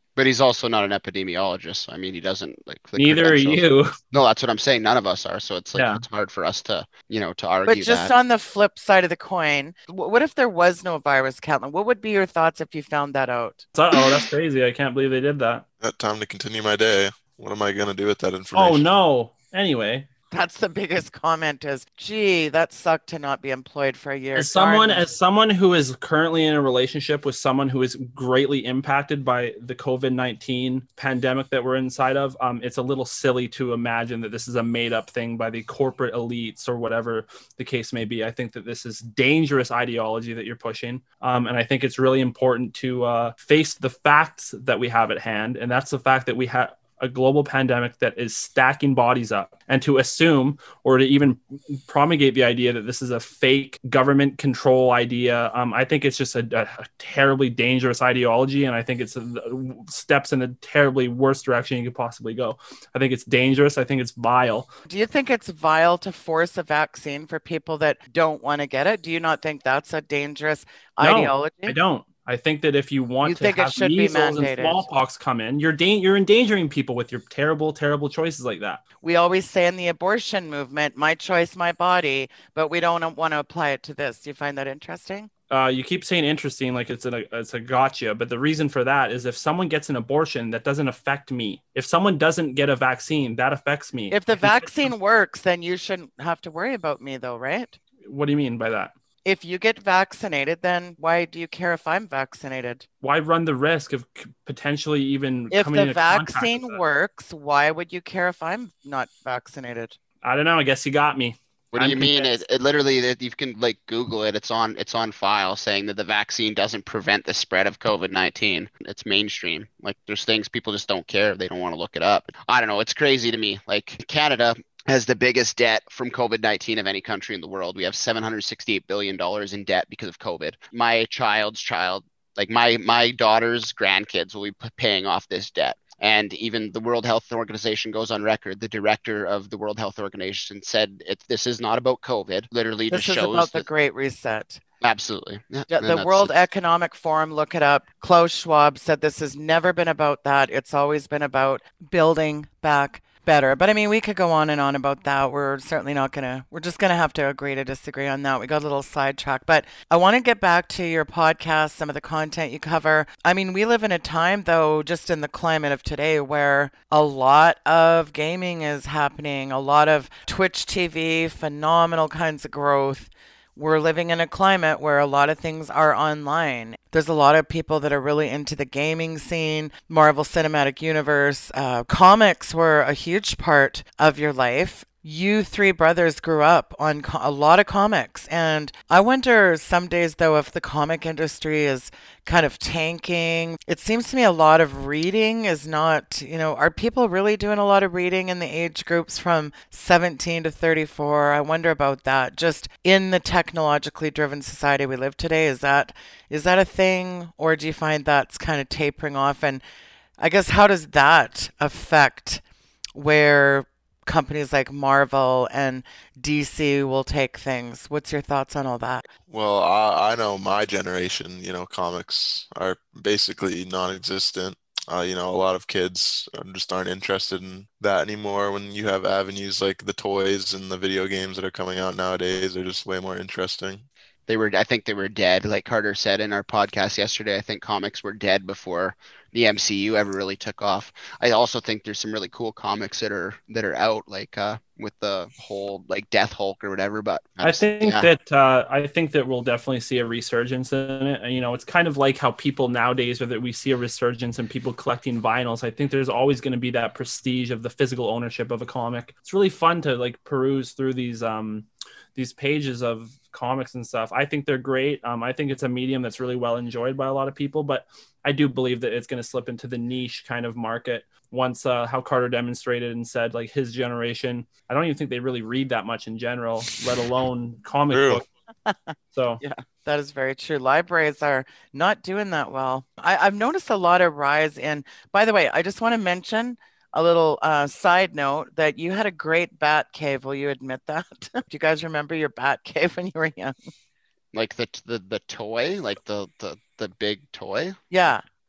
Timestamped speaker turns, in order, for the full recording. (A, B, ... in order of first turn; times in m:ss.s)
0:00.2-0:08.1 A
0:03.0-0:03.9 B
0:05.8-0:06.0 B
0:07.7-0:13.6 C
0:13.8-0:15.6 B
0:15.8-0:18.9 D
0:18.5-0:20.1 B
0:20.3-0:25.1 C
0:24.4-1:04.7 B
1:04.9-1:11.8 C
1:11.0-1:18.8 B
1:13.2-1:14.8 C
1:19.0-1:25.3 C
1:25.5-1:34.9 B
1:34.1-1:37.8 C
1:38.0-1:38.9 B
1:39.2-1:42.8 C
1:43.0-1:46.8 B
1:45.5-1:50.0 C
1:50.2-1:51.4 B
1:51.7-2:23.7 A
1:51.8-1:52.4 C
2:22.9-2:24.6 C
2:24.8-2:26.3 A
2:25.7-3:29.6 C
3:30.2-3:32.4 C
3:33.0-3:39.1 C
3:39.3-3:53.8 D
3:54.3-4:08.1 A
4:07.4-4:38.3 B
4:37.9-4:38.2 D
4:38.7-4:53.5 C
4:39.1-4:39.4 B
4:54.3-4:57.8 A
4:57.9-4:58.2 C